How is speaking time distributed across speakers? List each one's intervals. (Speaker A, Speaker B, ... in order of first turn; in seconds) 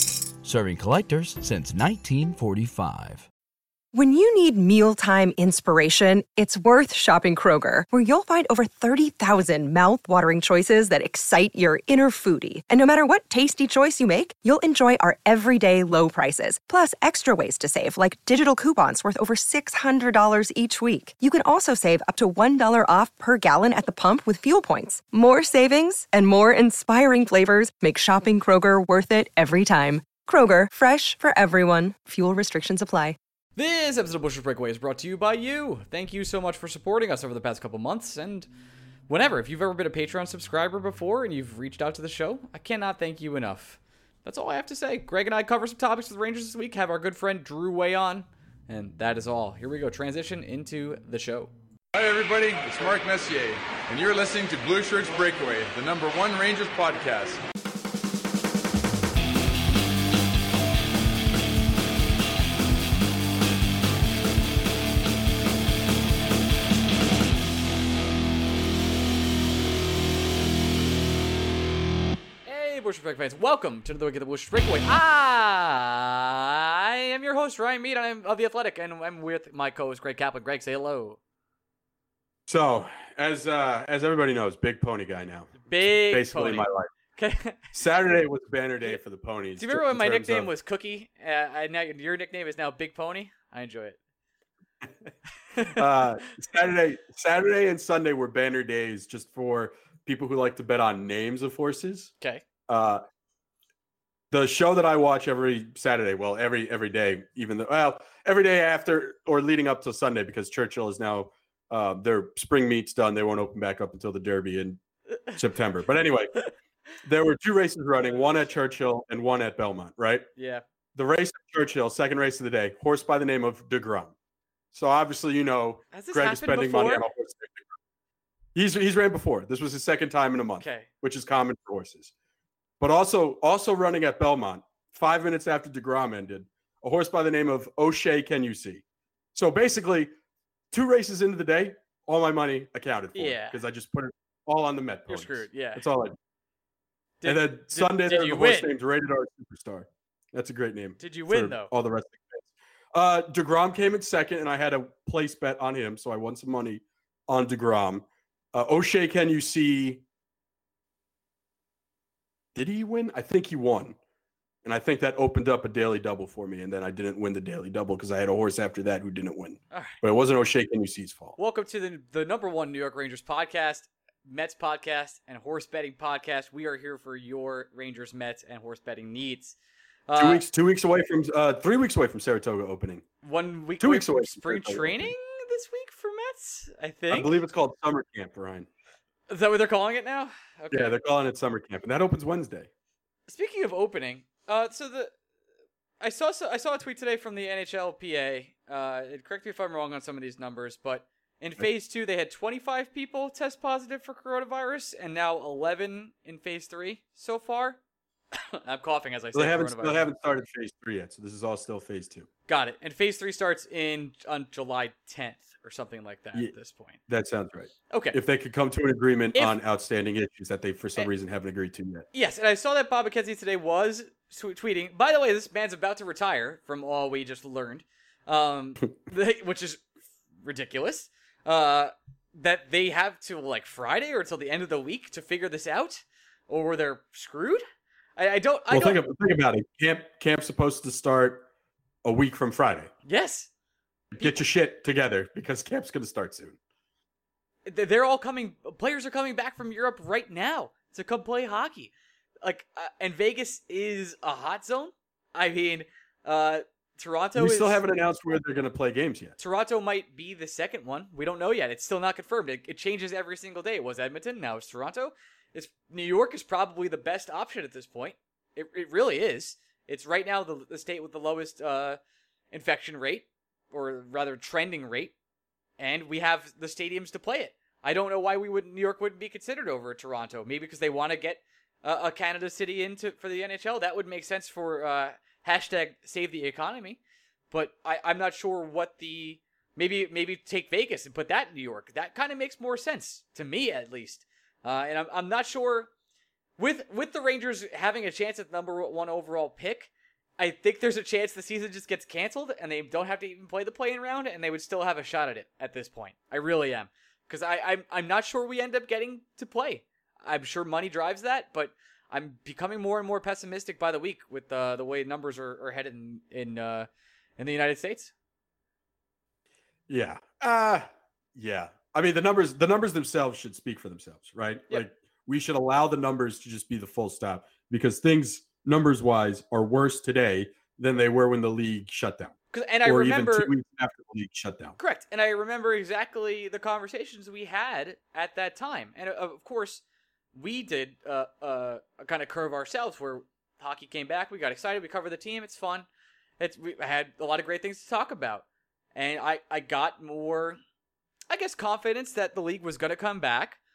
Speaker A: 0.4-3.3
Speaker B: 3.9-33.2
Speaker C: 33.6-38.5, 39.1-51.5, 72.5-81.2, 85.7-87.6, 89.6-94.0, 95.6-95.8, 118.0-118.3, 120.4-120.6, 125.9-127.0, 130.6-130.9, 143.1-143.6, 145.1-145.8, 147.2-148.7, 151.0-151.7, 169.7-170.0, 171.4-179.6, 180.1-180.5, 183.2-187.3, 189.3-191.0, 193.3-195.1, 196.0-207.8, 208.3-210.1, 212.5-217.0, 217.9-218.2, 222.1-229.8, 230.4-237.6, 238.2-239.0, 243.1-243.5, 247.7-251.9, 252.4-257.8, 259.4-272.0, 272.5-275.1, 275.8-287.0, 287.5-295.9, 296.6-318.1, 332.5-333.5, 334.8-339.8, 340.4-345.9, 346.4-350.6, 351.3-353.6
Speaker D: 51.9-57.4
Speaker E: 82.5-86.9, 87.7-90.5, 95.7-102.1, 102.7-103.0, 104.3-114.8, 115.3-116.4, 117.0-120.3, 121.0-124.1, 124.7-127.7, 128.6-132.1, 132.8-138.8, 139.3-140.1, 140.7-146.2, 147.2-160.0, 162.6-164.0, 164.6-171.4, 180.2-183.1, 183.8-185.1, 187.1-188.7, 190.7-192.7, 209.3-212.3, 217.1-222.1, 238.7-241.5, 242.0-242.9, 244.1-246.6, 257.4-259.4, 319.9-334.8